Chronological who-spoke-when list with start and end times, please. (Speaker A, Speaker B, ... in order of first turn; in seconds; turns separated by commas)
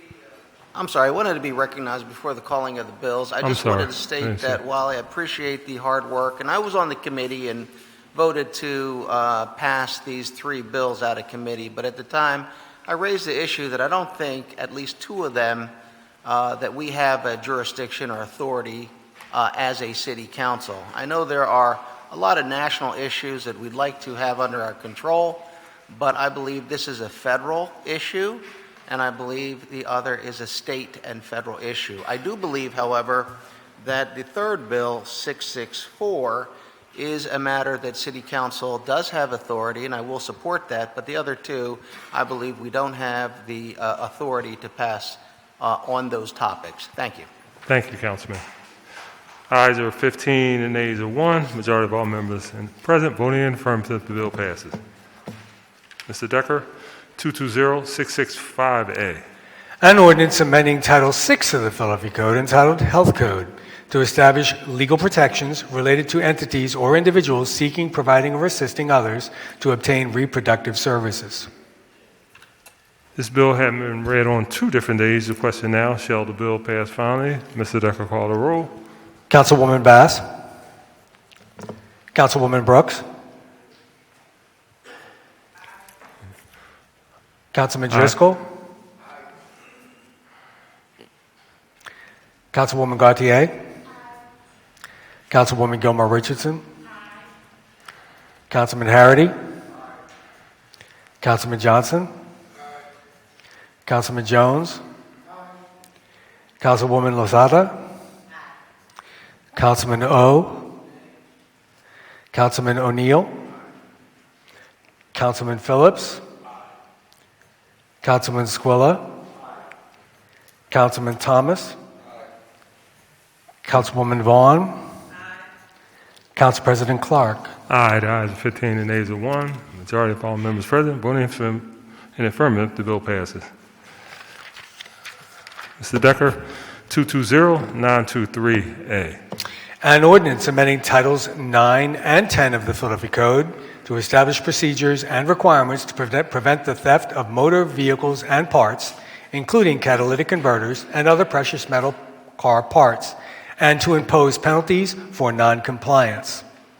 Speaker A: 0.7-15.7, Speaker B: 3.4-4.6, Speaker A: 16.2-47.3, Speaker B: 47.6-48.4, Speaker B: 49.5-54.8, Speaker B: 56.1-59.2, Speaker C: 59.8-71.5, Speaker B: 73.2-78.7, Speaker C: 79.3-80.2, Speaker C: 82.1-83.0, Speaker C: 87.5-88.4, Speaker C: 92.5-93.5, Speaker C: 95.3-96.6, Speaker C: 98.5-99.3, Speaker C: 101.2-102.1, Speaker C: 103.8-104.8, Speaker C: 106.6-107.7, Speaker C: 109.5-110.7, Speaker C: 112.3-113.3, Speaker C: 115.1-116.2, Speaker C: 118.0-119.0, Speaker C: 120.7-121.8, Speaker C: 123.6-124.8, Speaker C: 126.3-127.5, Speaker B: 127.7-133.5, Speaker B: 135.8-139.2, Speaker C: 139.8-156.4